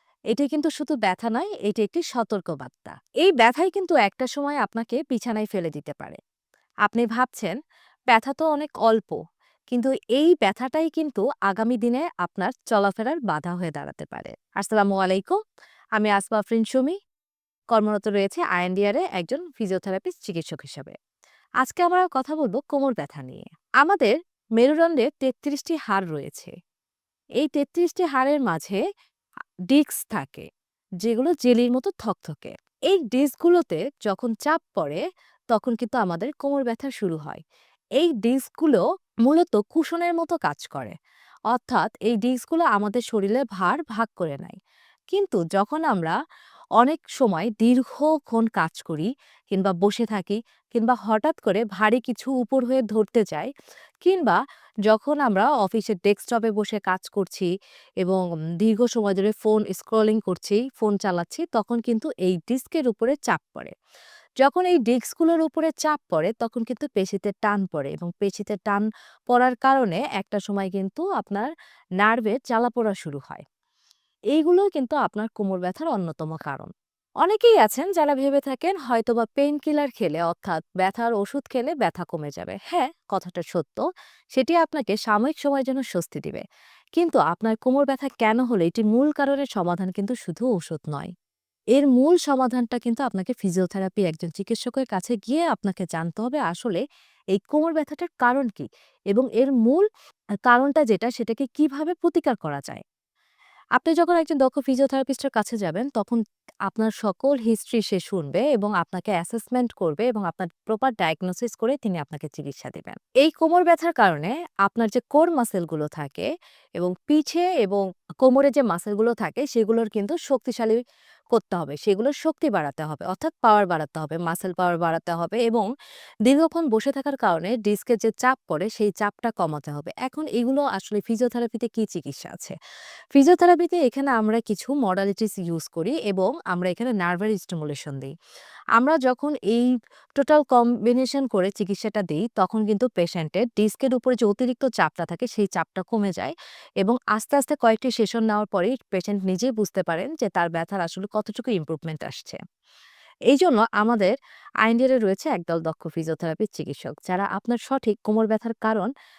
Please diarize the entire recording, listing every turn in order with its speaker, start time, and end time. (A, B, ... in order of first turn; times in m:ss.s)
0:00.3-0:06.2 A
0:06.9-0:07.6 A
0:08.1-0:09.2 A
0:09.7-0:15.4 A
0:16.0-0:17.0 A
0:17.7-0:21.0 A
0:21.6-0:26.5 A
0:27.4-0:28.8 A
0:29.7-0:30.5 A
0:31.0-0:37.4 A
0:38.0-0:40.9 A
0:41.5-0:44.6 A
0:45.1-0:46.2 A
0:46.8-0:53.5 A
0:54.0-0:57.5 A
0:58.0-1:03.7 A
1:04.4-1:11.5 A
1:12.0-1:13.4 A
1:14.4-1:16.7 A
1:17.2-1:26.4 A
1:27.0-1:31.1 A
1:31.8-1:36.8 A
1:37.3-1:39.8 A
1:40.5-1:42.8 A
1:43.8-2:00.8 A
2:01.3-2:05.7 A
2:06.3-2:12.6 A
2:13.2-2:18.1 A
2:18.8-2:32.4 A
2:33.3-2:38.9 A